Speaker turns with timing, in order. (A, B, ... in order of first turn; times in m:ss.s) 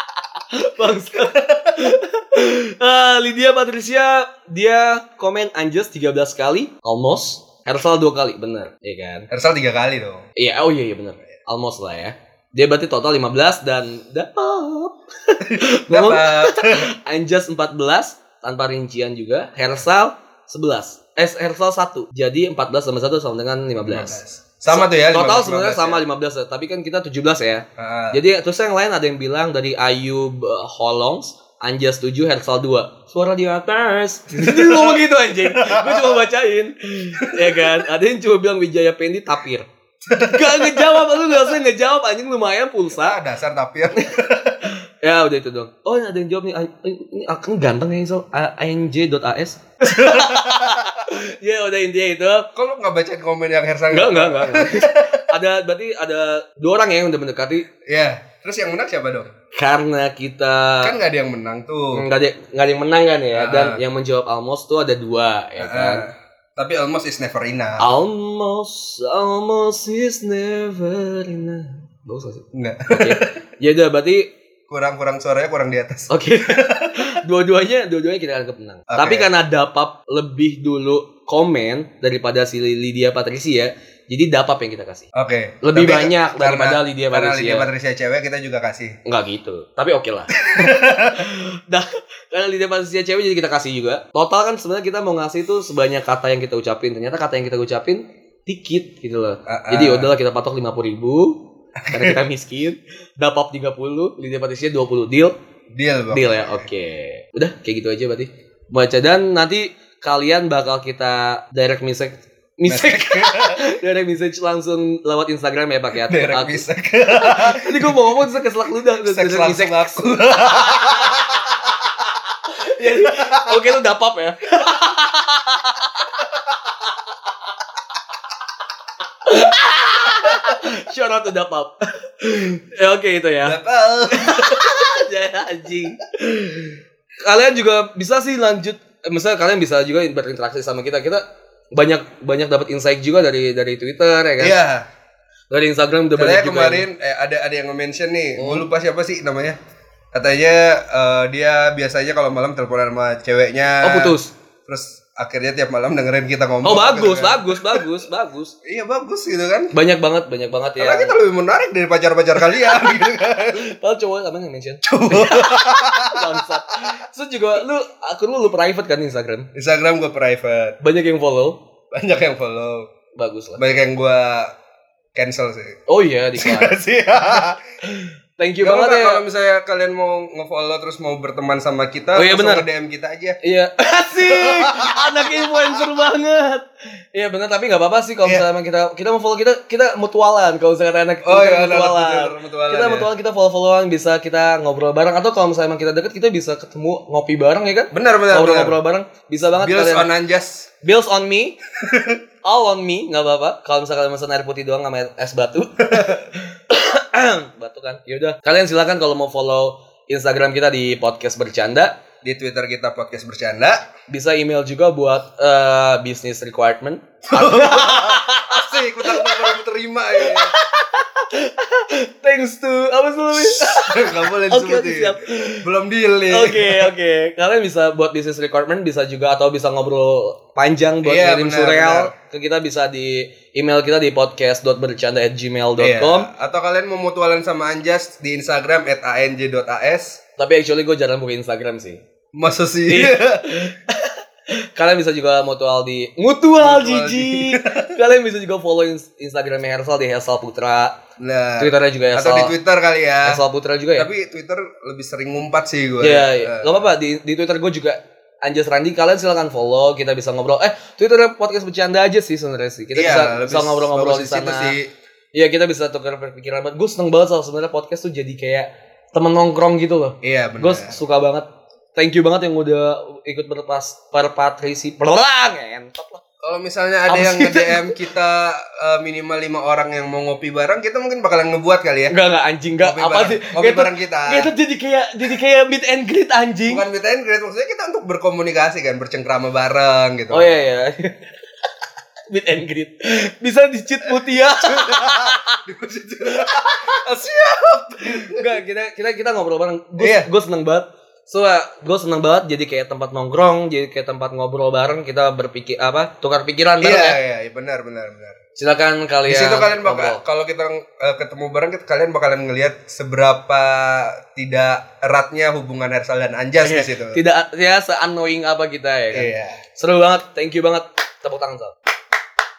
0:00.4-0:09.3 A
0:09.3-0:10.3 B
0:10.4-0:39.6 A
0:15.4-0:16.9 B
0:23.8-0:26.0 B
0:27.8-0:28.2 B
0:34.3-0:36.2 B
0:37.2-0:37.9 B
0:40.0-0:41.1 B
0:40.2-0:43.2 A
0:42.9-0:44.7 B
0:43.9-0:52.5 A
0:49.8-0:50.8 B
0:52.5-0:55.3 B
0:53.9-0:57.7 A
0:57.8-0:59.3 B
0:59.5-1:00.9 A
1:00.8-1:02.0 B
1:01.9-1:06.1 A
1:03.3-1:03.8 B
1:05.6-1:07.9 B
1:07.8-1:14.3 A
1:12.5-1:13.3 B
1:14.7-1:17.2 B
1:16.1-1:25.1 A
1:18.9-1:19.3 B
1:25.1-1:29.0 B
1:25.6-1:27.7 A
1:29.0-1:45.3 A
1:30.5-1:31.3 B
1:39.5-1:40.1 B
1:41.9-1:42.2 B
1:45.7-1:46.6 B
1:46.1-2:01.2 A
1:52.7-1:53.6 B
1:56.0-1:58.2 B
1:58.9-2:01.7 B
2:02.6-2:06.0 A
2:02.8-2:03.6 B
2:09.2-2:13.6 A
2:13.4-2:15.0 B
2:14.1-2:21.2 A
2:21.7-2:24.6 A
2:24.4-2:24.9 B
2:25.5-2:26.8 A
2:26.1-2:29.6 B
2:28.4-2:28.7 A
2:30.1-2:37.8 B
2:33.8-2:34.3 A
2:36.6-2:38.5 A
2:38.6-2:39.7 B
2:39.7-2:41.2 A
2:40.8-2:43.6 B
2:42.4-2:49.5 A
2:44.8-2:46.4 B
2:49.5-2:50.8 B
2:50.8-2:51.6 A
2:51.9-2:52.9 B
2:53.1-2:53.6 A
2:53.6-2:54.5 B
2:55.1-2:55.8 B
2:55.9-2:59.2 A
2:56.4-2:57.6 B
2:58.6-3:03.4 B
3:02.1-3:02.6 A
3:03.4-3:20.1 A
3:04.1-3:05.8 B
3:11.2-3:13.1 B
3:17.9-3:18.8 B
3:19.6-3:20.7 B
3:20.8-3:21.6 A
3:21.8-3:22.2 B
3:22.4-3:32.0 A
3:25.9-3:26.2 B
3:32.2-3:33.9 B
3:34.1-3:39.6 A
3:37.3-3:40.5 B
3:40.2-3:45.7 A
3:43.3-3:46.9 B
3:46.3-3:56.3 A
3:51.0-3:52.1 B
3:55.8-4:00.2 B
4:00.4-4:02.0 A
4:02.3-4:03.6 B
4:02.9-4:11.0 A
4:06.6-4:08.0 B
4:11.2-4:13.4 B
4:11.6-4:12.6 A
4:13.2-4:14.1 A
4:14.0-4:16.9 B
4:16.0-4:24.7 A
4:22.9-4:24.9 B
4:25.3-4:36.2 A
4:30.2-4:31.0 B
4:36.4-4:42.2 B
4:37.1-4:38.0 A
4:42.1-4:46.8 A
4:42.8-4:44.5 B
4:46.7-4:50.6 B
4:50.3-4:51.3 A
4:52.3-4:55.6 A
4:54.6-4:58.6 B
4:56.3-4:56.8 A
4:58.0-5:07.2 A
5:00.0-5:00.3 B
5:06.8-5:08.4 B
5:08.6-5:10.2 A
5:09.3-5:17.2 B
5:16.6-5:21.7 A
5:19.1-5:19.6 B